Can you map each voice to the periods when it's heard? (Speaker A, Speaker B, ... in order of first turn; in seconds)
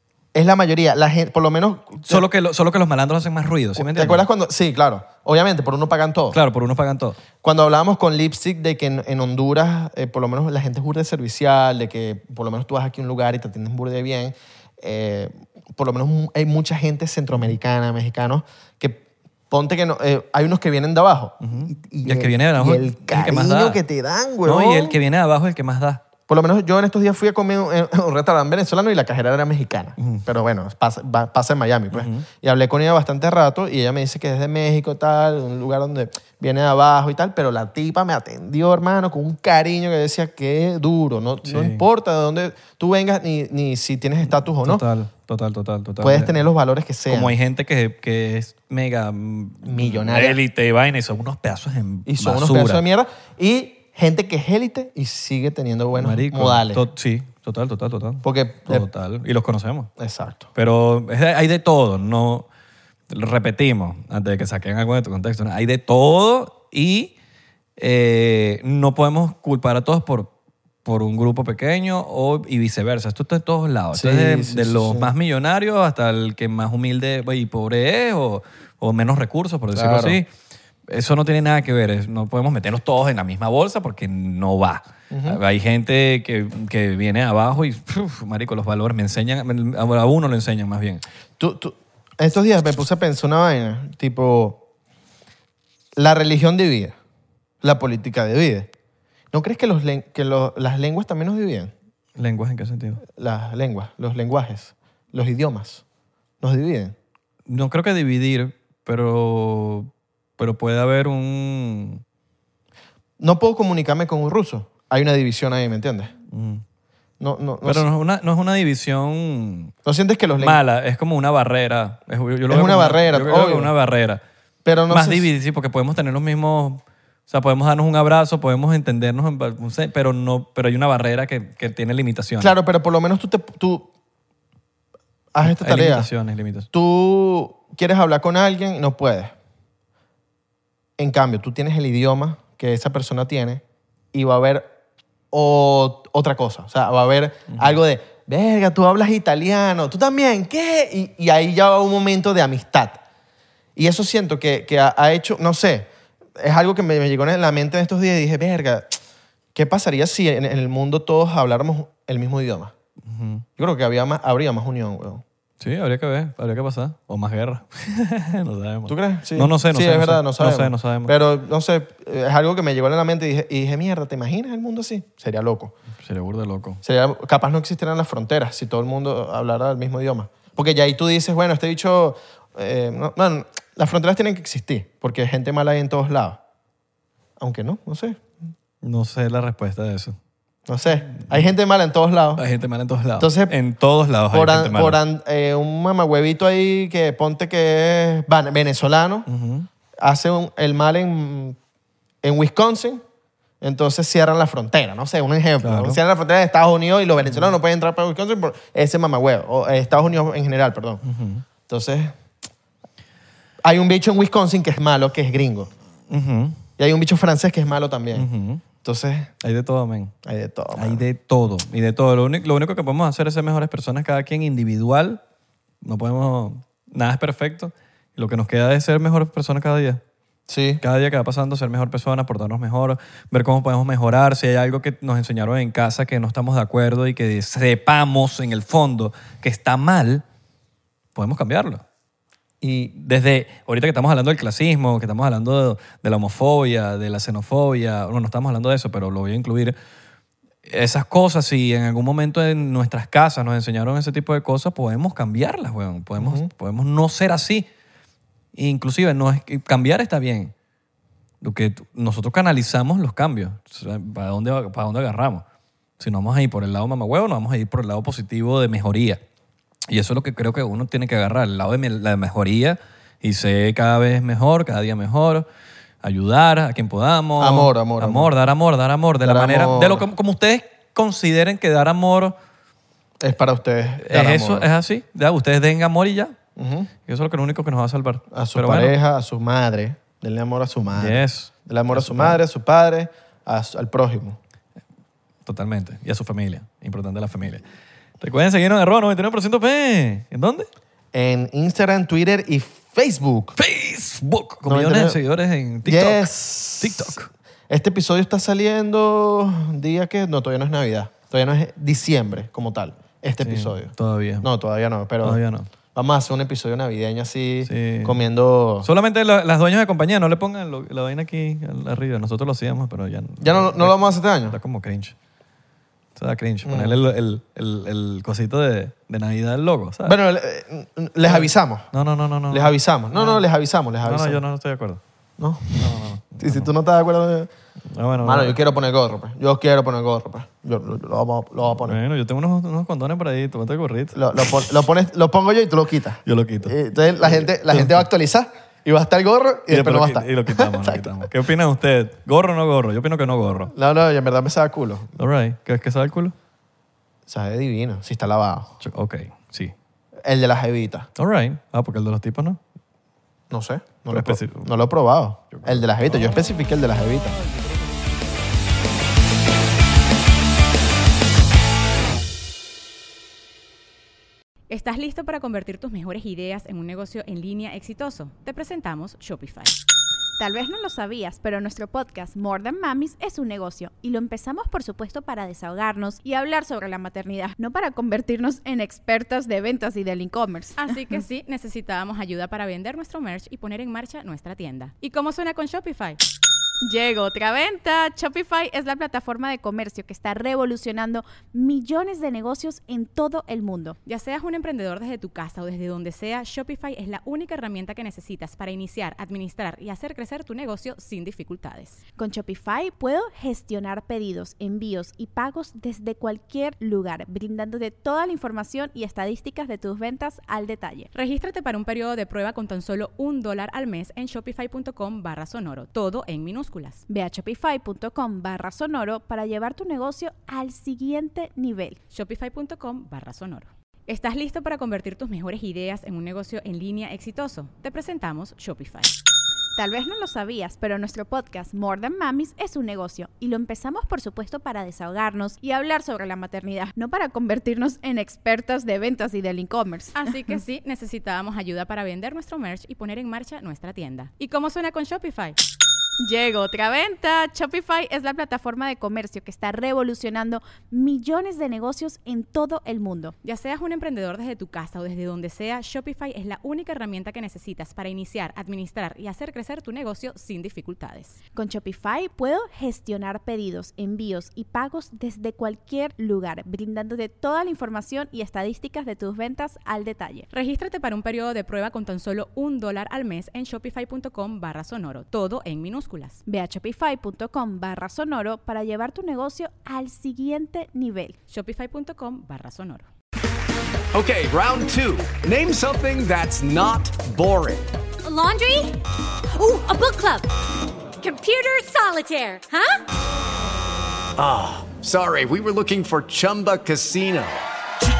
Speaker A: 0.3-2.2, 3.8-6.4, 7.4-25.0, 26.3-44.8, 46.0-47.4, 49.6-50.4, 52.1-56.8, 58.2-58.9, 60.0-60.5, 73.9-75.1, 79.7-80.2, 85.1-85.4, 91.4-94.6, 96.0-96.9, 97.6-98.7, 99.3-101.7, 103.2-105.8, 106.4-106.9, 113.2-116.1, 117.2-117.8, 119.8-120.6, 122.5-123.7, 124.7-125.3, 132.4-133.8, 135.3-136.1, 136.7-139.3, 141.0-143.6, 144.1-144.7, 145.3-153.0, 153.8-155.9, 156.4-159.0, 159.5-162.7, 163.6-165.2, 168.9-175.7, 176.8-186.4, 187.4-188.2, 190.7-192.4, 193.2-193.5, 194.3-199.3, 200.0-201.6, 202.2-203.0, 203.6-211.0, 211.7-212.1, 213.6-215.7, 216.8-218.3, 218.8-219.3, 220.2-221.0, 230.5-230.8, 242.6-242.9, 256.2-256.5, 277.4-278.3, 279.2-280.0, 283.2-284.7, 286.6-286.9, 288.3-294.4, 301.1-303.6, 304.7-305.2, 305.8-307.2, 307.7-315.4, 315.9-318.9, 323.4-324.6, 326.6-327.0, 330.0-331.9, 332.5-334.4, 335.4-337.5, 338.2-342.0, 344.1-351.2, 353.7-355.1, 357.3-358.7, 360.2-361.1, 363.5-367.4
Speaker B: 2.1-4.2, 6.3-7.2, 21.4-23.8, 24.4-26.0, 30.0-30.2, 31.9-32.2, 41.4-41.8, 44.2-46.4, 47.1-52.8, 55.9-59.9, 60.5-62.5, 63.1-67.1, 67.8-70.3, 70.8-80.3, 80.9-91.0, 102.2-103.0, 107.5-112.0, 116.3-116.6, 117.6-119.7, 120.4-124.2, 124.9-132.5, 135.4-136.7, 147.5-147.8, 163.1-163.4, 165.6-171.1, 176.0-176.8, 188.8-190.2, 191.0-191.5, 192.3-195.0, 199.3-199.7, 205.6-206.0, 207.2-207.6, 211.0-211.4, 216.1-216.6, 218.1-218.6, 219.4-220.1, 220.8-225.2, 225.8-230.0, 230.8-240.2, 241.1-241.8, 242.9-249.8, 250.7-257.7, 258.5-260.5, 261.4-265.4, 266.0-269.2, 269.9-275.4, 276.0-282.4, 284.0-286.4, 287.1-288.9, 290.9-292.4, 295.4-297.6, 298.2-300.7, 303.6-306.3, 306.8-307.3, 313.4-314.5, 315.2-315.7, 317.6-318.2, 318.8-325.1, 326.1-330.1, 331.2-333.4, 334.0-335.0, 335.8-336.7, 337.9-338.6, 341.7-344.7, 346.2-348.1, 349.7-353.7, 355.2-356.3, 358.8-359.7, 361.2-362.6, 364.1-364.7, 365.5-366.6, 367.4-367.8
Speaker C: 374.7-379.8, 390.8-396.2, 404.0-412.0, 421.1-427.0, 432.1-439.1, 450.1-455.6, 463.4-471.4, 480.5-486.4, 491.5-493.1
Speaker D: 380.4-390.9, 396.8-404.0, 412.2-421.1, 427.1-432.0, 439.8-450.2, 456.2-463.3, 471.5-480.5, 486.4-491.4
Speaker E: 494.1-497.9, 504.4-507.6
Speaker F: 498.2-500.5, 501.2-503.0